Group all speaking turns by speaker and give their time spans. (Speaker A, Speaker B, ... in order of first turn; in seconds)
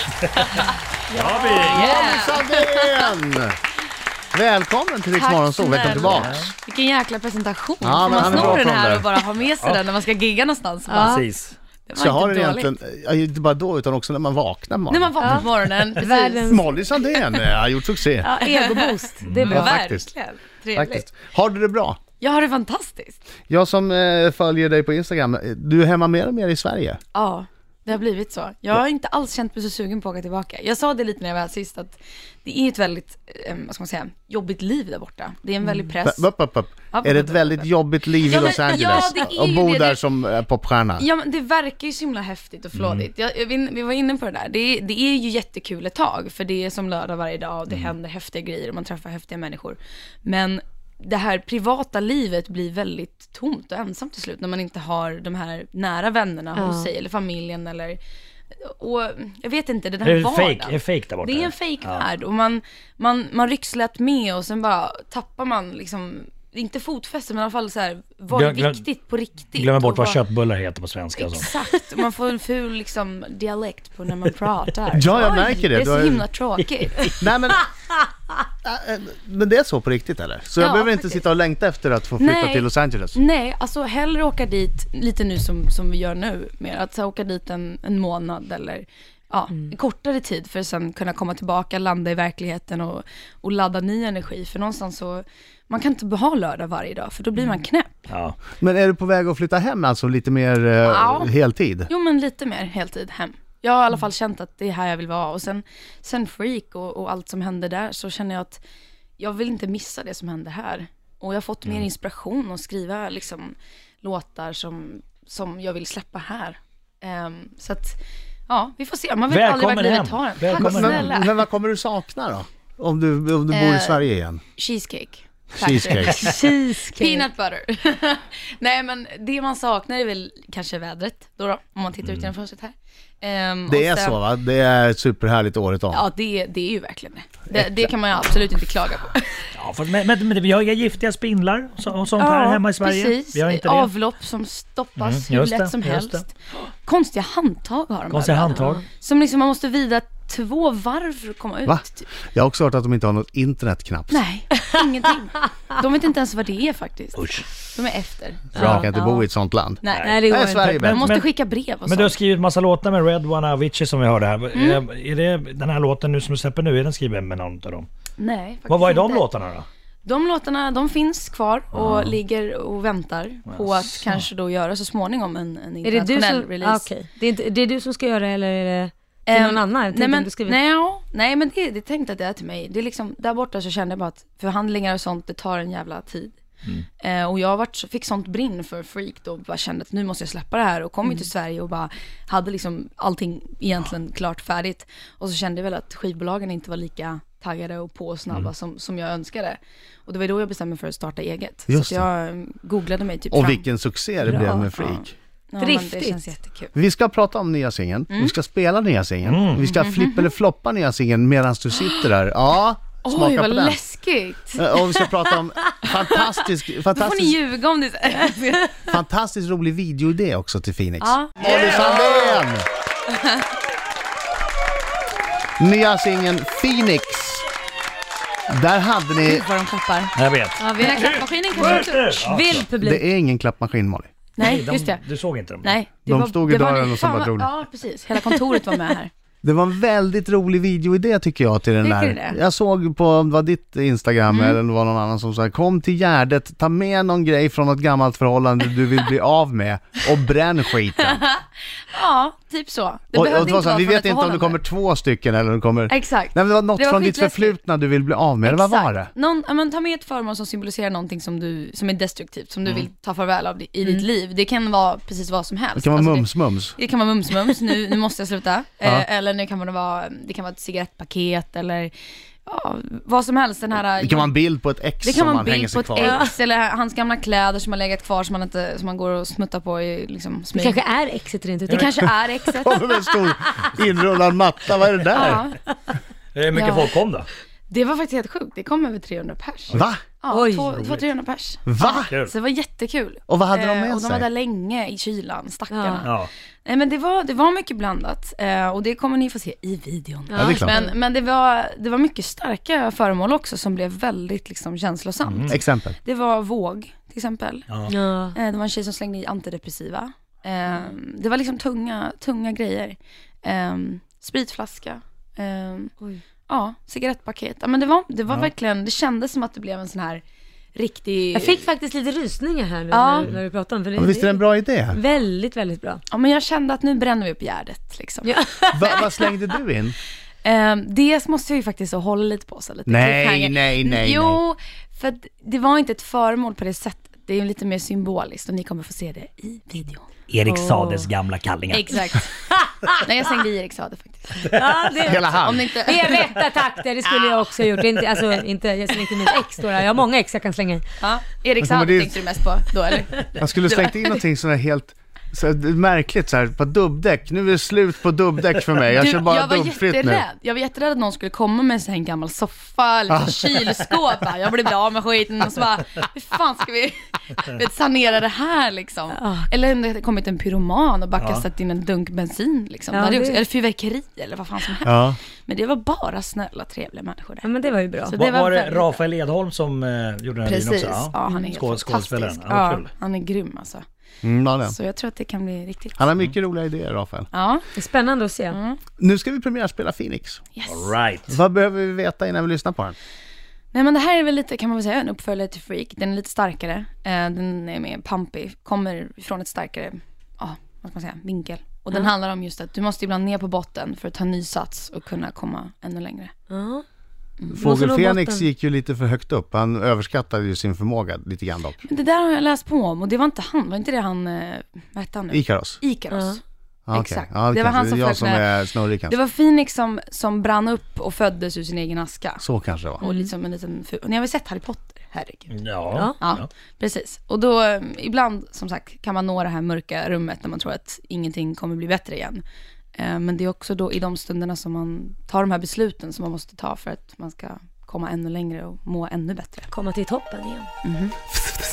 Speaker A: 0.3-3.1, 5.2-11.2, 11.9-12.8, 14.9-16.5, 18.4-21.1, 22.2-23.2, 27.1-36.3, 36.9-37.7, 38.2-40.0, 41.0-58.0, 58.6-70.2, 71.2-77.1, 80.6-81.2, 82.2-98.0, 100.8-101.3, 101.9-108.6, 109.2-121.3, 123.5-126.3, 126.9-134.2, 135.9-139.5, 142.2-152.1, 154.1-158.5, 159.8-160.2, 160.8-162.2, 164.5-164.8, 168.2-169.3, 170.1-176.9, 179.3-186.4, 187.0-203.7, 204.7-206.7, 208.1-208.3, 209.7-210.3, 211.8-212.1, 213.0-214.7, 216.9-218.8, 221.0-222.4, 223.1-223.5, 229.2-230.2, 230.7-232.2, 234.4-235.0, 235.6-239.1, 241.8-242.4, 244.3-244.6, 251.0-254.6, 255.9-257.6, 258.4-271.9, 272.4-274.4, 275.0-280.8, 281.7-282.8, 285.1-285.6, 287.7-296.1, 296.6-307.7, 308.3-315.9, 316.5-320.2, 320.8-321.6, 322.9-323.3, 326.1-328.3, 330.4-340.1, 341.7-344.5, 345.3-346.2, 351.0-354.1, 358.9-377.5, 378.1-379.0, 380.4-383.8, 384.6-386.1, 387.3-387.6, 388.5-388.8, 390.6-390.8, 393.7-406.3, 411.8-416.4, 416.9-418.5, 419.1-422.4, 423.0-425.5, 426.2-432.4, 433.0-439.7, 440.8-441.2
Speaker B: 1.1-2.1, 5.8-6.5, 8.2-8.6, 11.0-11.6, 42.8-43.1, 60.0-62.0, 68.3-68.8, 69.5-71.5, 98.1-98.4, 119.3-121.1, 139.6-143.9, 145.0-146.2, 148.1-148.8, 157.2-157.4, 158.6-158.9, 160.8-161.3, 161.9-167.9, 168.7-169.7, 171.7-172.2, 173.5-174.2, 209.2-209.7, 221.4-222.1, 230.2-232.7, 234.4-235.8, 286.4-287.3, 292.1-292.3, 296.0-296.3, 305.2-305.6, 340.3-341.9, 371.2-371.4, 378.1-382.9, 390.6-391.3, 425.5-426.5
Speaker C: 1.6-3.6, 4.3-6.5, 7.8-9.1, 12.0-15.2, 16.4-18.3, 19.5-20.1, 20.8-22.0, 23.5-27.0, 36.0-41.1, 74.9-76.3, 77.2-77.7, 78.6-83.2, 98.6-101.9, 120.6-124.4, 125.5-126.2, 133.7-136.1, 137.5-137.9, 151.7-154.2, 158.6-161.2, 201.7-202.1, 203.3-205.1, 206.7-213.8, 214.6-217.4, 218.8-222.7, 225.6-227.4, 228.5-229.5, 232.8-234.1, 236.1-237.5, 239.4-251.2, 253.1-259.1, 265.8-266.8, 274.0-276.2, 282.5-285.4, 289.7-290.0, 291.7-292.1, 293.3-294.3, 300.4-300.8, 305.5-306.0, 324.0-325.0, 328.7-330.0, 332.9-334.4, 345.1-345.6, 351.6-352.2, 353.3-360.2, 363.1-363.7, 374.8-375.2, 384.2-384.8, 386.0-387.3, 389.0-390.4, 391.3-393.0, 407.5-411.8, 415.3-415.8, 416.9-419.2, 422.4-423.0
Speaker D: 10.9-11.2, 15.2-16.6, 18.2-19.8, 38.3-39.2, 56.6-56.9, 126.0-127.3, 148.6-148.8, 158.5-159.2, 160.0-160.9, 175.8-180.6, 204.3-204.7, 205.6-206.2, 230.6-233.0, 276.0-276.3, 280.5-281.9, 286.6-286.8, 290.3-290.8, 295.7-296.1, 300.3-300.9, 307.9-308.4, 321.3-326.0, 328.2-329.1, 340.4-341.1, 342.1-343.1, 344.5-345.2, 345.8-350.8, 369.1-369.5, 372.9-373.4, 377.4-378.2, 387.7-388.6, 406.5-406.8, 407.6-408.5, 416.1-416.4, 423.0-423.3, 439.7-440.7